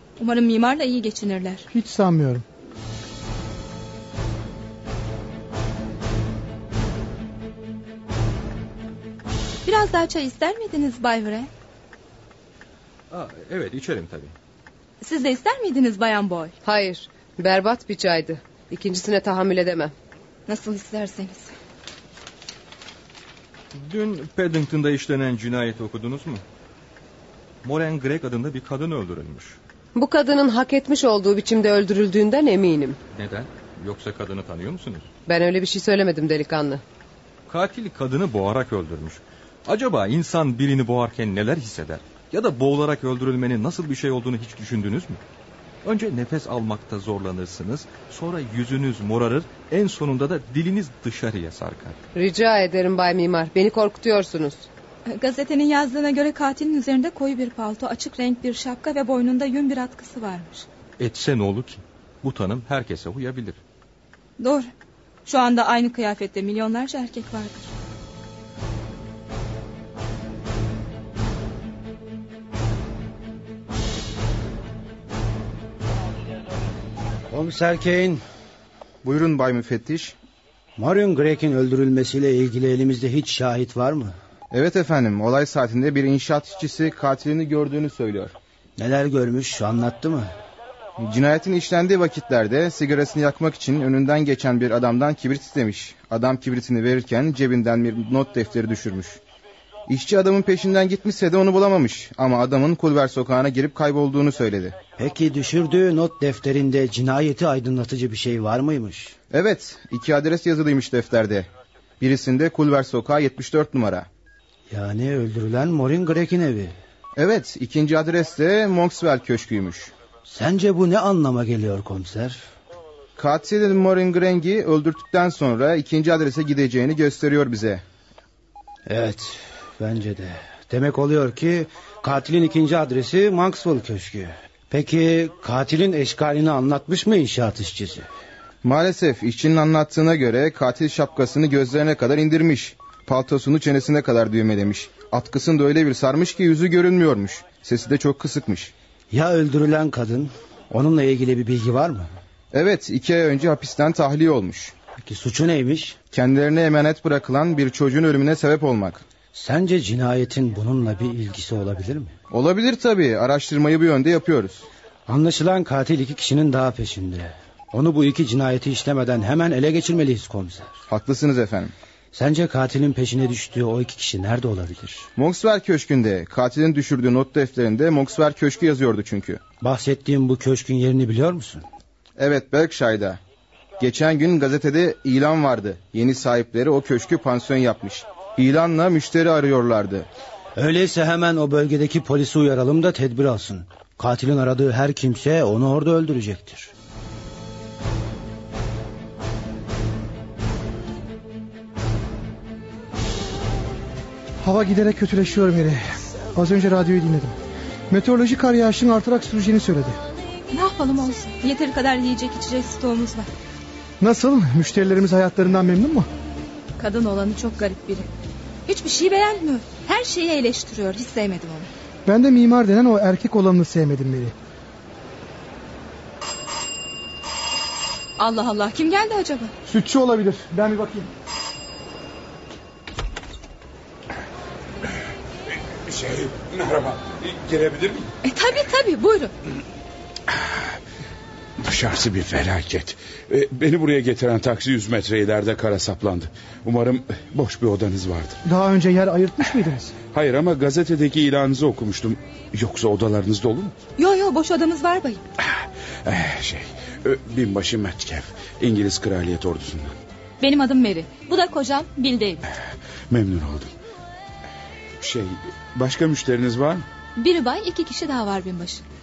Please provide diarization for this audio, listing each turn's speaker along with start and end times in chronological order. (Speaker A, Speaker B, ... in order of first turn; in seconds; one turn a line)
Speaker A: 0.2-1.7
Speaker B: 1.7-2.5
Speaker A: 9.7-11.5
Speaker C: 13.1-14.3
Speaker A: 15.0-16.5
Speaker D: 16.6-19.9
Speaker A: 20.5-21.5
Speaker C: 23.7-26.4
Speaker C: 27.6-29.6
Speaker D: 29.9-33.0
Speaker C: 33.1-35.1
Speaker D: 35.3-36.8
Speaker C: 37.5-45.2
Speaker C: 45.8-52.0
Speaker D: 52.1-54.7
Speaker A: 55.1-60.7
Speaker C: 61.0-63.6
Speaker A: 64.4-64.7
Speaker A: 65.3-67.7
Speaker E: 77.3-78.2
Speaker F: 79.0-80.2
Speaker E: 80.8-84.2
Speaker F: 84.5-88.3
Speaker E: 88.8-90.3
Speaker F: 91.0-99.2
Speaker F: 99.9-104.8
Speaker E: 105.0-109.2
Speaker F: 109.3-111.5
Speaker F: 112.0-114.1
Speaker E: 114.7-116.7
Speaker F: 117.2-119.9
Speaker E: 120.3-122.4
Speaker F: 123.2-127.8
Speaker E: 128.9-138.1
Speaker F: 138.6-148.7
Speaker E: 149.1-152.1
Speaker F: 152.5-154.7
Speaker E: 155.0-156.0
Speaker F: 156.1-159.0
Speaker E: 159.3-162.1
Speaker F: 162.3-164.7
Speaker E: 165.1-170.7
Speaker F: 170.9-171.7
Speaker E: 172.1-175.1
Speaker F: 175.2-179.4
Speaker E: 179.6-181.7
Speaker F: 182.2-183.2
Speaker F: 183.8-190.1
Speaker E: 190.6-196.7
Speaker B: 204.4-207.4
Speaker B: 207.9-210.0
Speaker A: 210.5-213.3
Speaker B: 214.0-216.1
Speaker A: 216.8-218.1
Speaker A: 218.7-221.7
Speaker B: 222.1-224.3
Speaker A: 228.2-229.5
Speaker B: 229.7-231.1
Speaker G: 235.8-238.1
Speaker A: 238.2-239.3
Speaker G: 241.6-248.4
Speaker B: 248.4-249.9
Speaker G: 250.1-253.7
Speaker A: 254.0-255.2
Speaker G: 256.1-259.9
Speaker A: 260.4-262.4
Speaker G: 263.1-263.7
Speaker G: 265.0-266.8
Speaker A: 267.2-268.8